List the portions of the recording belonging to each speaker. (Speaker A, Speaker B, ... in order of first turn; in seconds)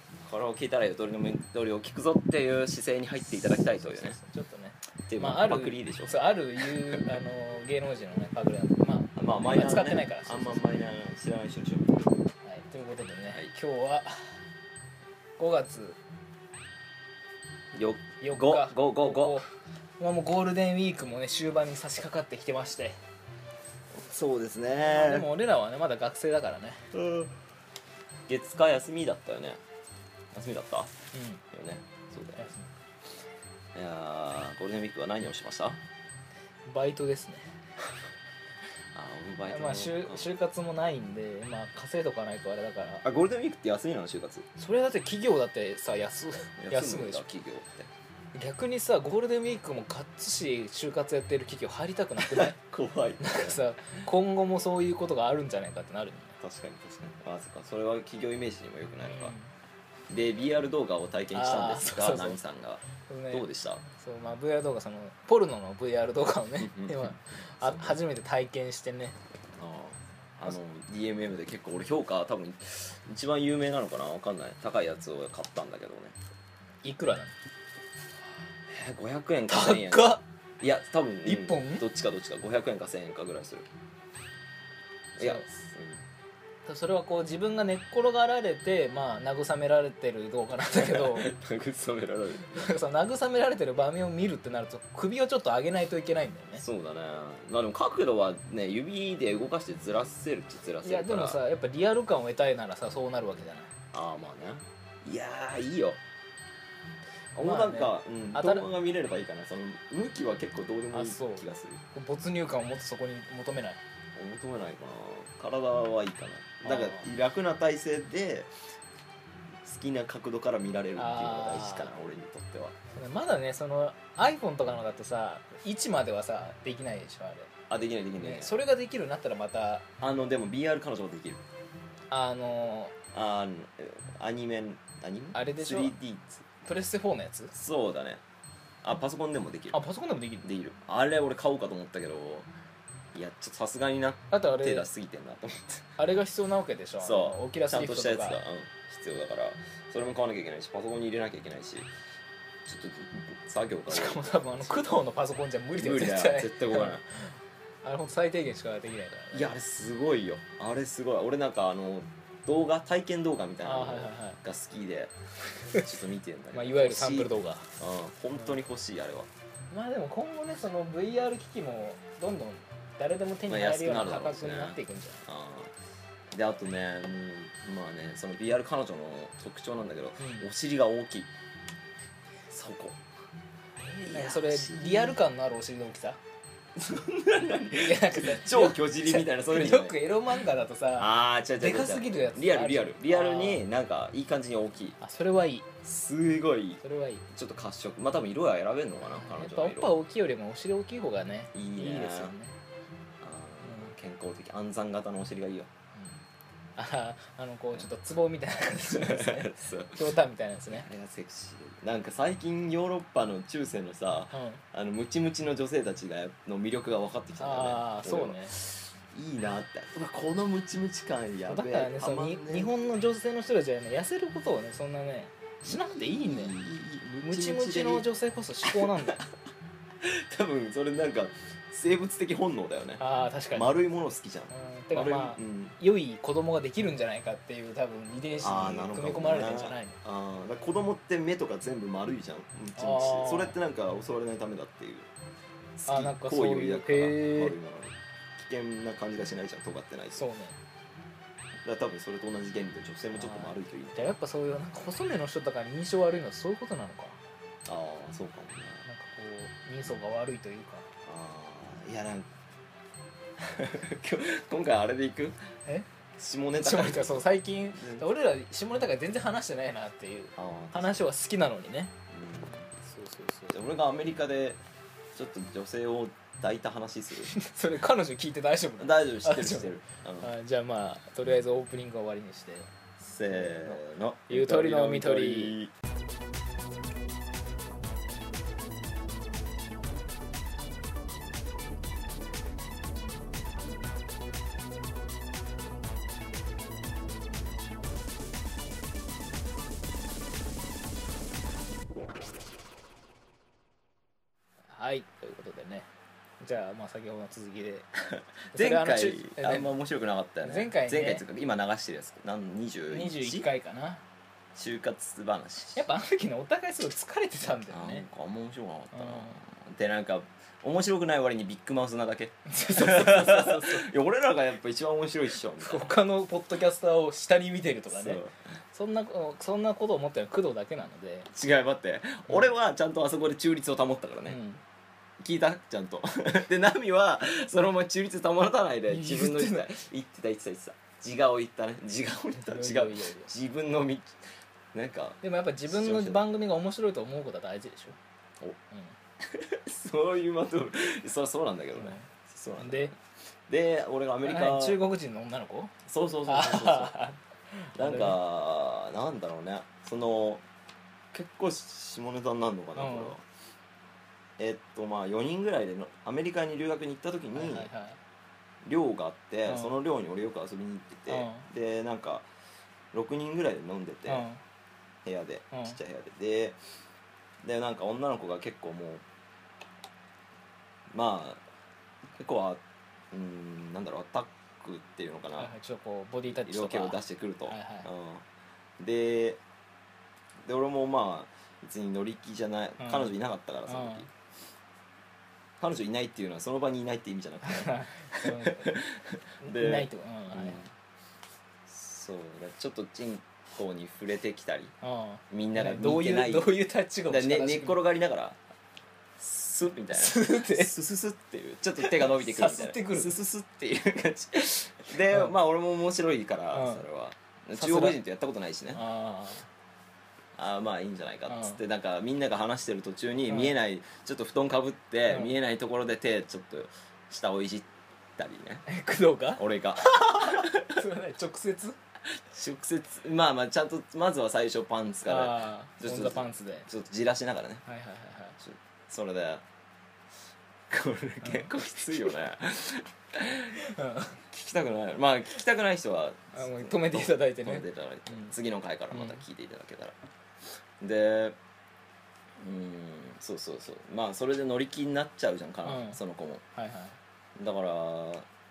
Speaker A: 0.2-4.2, 5.1-6.3, 9.1-12.2, 17.7-19.4, 23.9-25.3, 26.9-27.4, 28.3-29.6, 30.3-30.9, 31.5-32.5, 33.8-35.8, 38.9-40.3, 43.0-44.5, 46.6-47.9, 52.2-53.6, 56.4-59.3, 60.1-63.8, 66.6-68.0, 69.6-76.2, 78.7-83.7, 85.2-86.0, 90.7-92.7, 96.6-101.4, 103.9-106.0, 107.3-111.8, 114.2-118.5, 119.6-122.8, 127.7-128.5, 130.0-131.4, 133.1-136.5, 137.5-138.2, 138.8-139.8, 140.4-142.5, 143.1-145.8, 147.0-151.9, 152.6-155.0, 155.8-157.0, 159.3-165.1, 165.7-169.3, 173.5-175.7, 176.3-181.3, 182.5-183.0, 184.0-185.2, 186.8-190.0, 190.9-195.0, 195.8-199.9, 201.5-202.3, 203.2-205.7, 208.8-210.0, 210.7-222.7, 226.1-228.0, 228.7-229.0, 230.0-233.0, 233.5-235.8, 238.4-245.1, 245.8-250.2, 251.6-254.1, 257.7-258.8, 261.1-262.3, 263.4-265.4, 266.2-268.1, 270.4-271.1, 272.1-272.7, 273.5-274.6, 275.1-277.3, 278.8-280.3, 283.0-285.7, 308.1-313.5, 314.6-315.8, 317.7-325.9, 327.9-328.3, 331.3-334.4, 335.2-344.1, 344.7-346.2, 349.2-354.8, 355.9-357.0, 357.8-360.4, 361.1-363.2, 364.4-367.7, 368.6-372.3, 372.9-374.3, 375.1-376.6, 377.4-379.0, 380.9-381.4, 382.1-385.5, 386.3-388.2, 388.8-389.4, 390.4-394.1, 395.6-400.7, 401.7-404.7, 405.3-406.6, 407.1-408.4, 409.2-418.8, 420.4-428.6, 429.4-430.8, 432.2-437.6, 438.4-439.4, 440.7-443.6, 444.3-450.0, 450.8-451.4, 452.4-456.4, 457.4-458.3
Speaker B: 3.5-10.6, 12.4-14.4, 15.4-16.0, 18.2-19.5, 20.0-23.0, 24.8-26.9, 31.1-31.4, 32.4-32.7, 36.7-37.5, 39.5-43.0, 44.6-47.2, 48.3-52.6, 53.2-56.4, 59.0-59.5, 61.3-62.4, 63.0-69.2, 76.8-77.3, 79.5-80.2, 81.2-81.9, 85.2-85.4, 86.7-91.3, 92.5-96.6, 100.8-103.7, 107.4-108.7, 110.9-113.8, 116.6-117.1, 121.0-121.9, 122.9-127.5, 128.2-129.9, 132.1-132.9, 135.3-135.9, 136.6-137.5, 139.7-140.5, 144.3-144.9, 146.0-148.4, 153.9-159.5, 163.6-164.4, 166.5-167.7, 169.7-175.2, 180.2-180.5, 183.8-186.2, 187.8-193.6, 195.0-195.7, 196.8-197.2, 199.0-202.6, 203.6-203.9, 205.9-206.2, 206.8-210.9, 214.3-214.6, 217.4-218.6, 221.5-226.6, 227.2-229.2, 233.0-233.7, 234.5-240.0, 242.8-243.6, 245.8-247.6, 250.2-250.6, 253.2-257.2, 258.9-260.9, 266.6-271.9, 272.8-273.6, 277.3-282.7, 283.3-285.6, 304.7-305.9, 306.4-307.9, 308.5-309.7, 310.4-311.2, 312.9-314.0, 315.8-318.1, 318.9-319.4, 322.5-323.9, 325.6-328.2, 328.7-331.3, 334.3-334.6, 338.9-339.7, 342.4-343.3, 345.2-348.0, 351.8-352.1, 352.6-352.9, 354.2-355.7, 356.2-358.2, 362.8-363.1, 367.4-368.0, 369.5-369.7, 371.1-371.5, 374.1-374.4, 375.5-375.8, 385.4-387.9, 392.8-393.1, 393.7-394.1, 397.4-398.8, 399.4-400.6, 404.8-407.8, 409.9-410.8, 411.8-413.2, 415.1-415.3, 416.5-416.8, 417.6-418.0, 418.7-419.5, 421.3-421.6, 423.3-423.5, 425.1-425.4, 428.7-431.8, 435.1-436.7, 437.7-438.4, 441.2-441.5, 443.6-444.2, 446.4-448.3, 448.9-449.2, 455.6-456.0, 456.6-457.0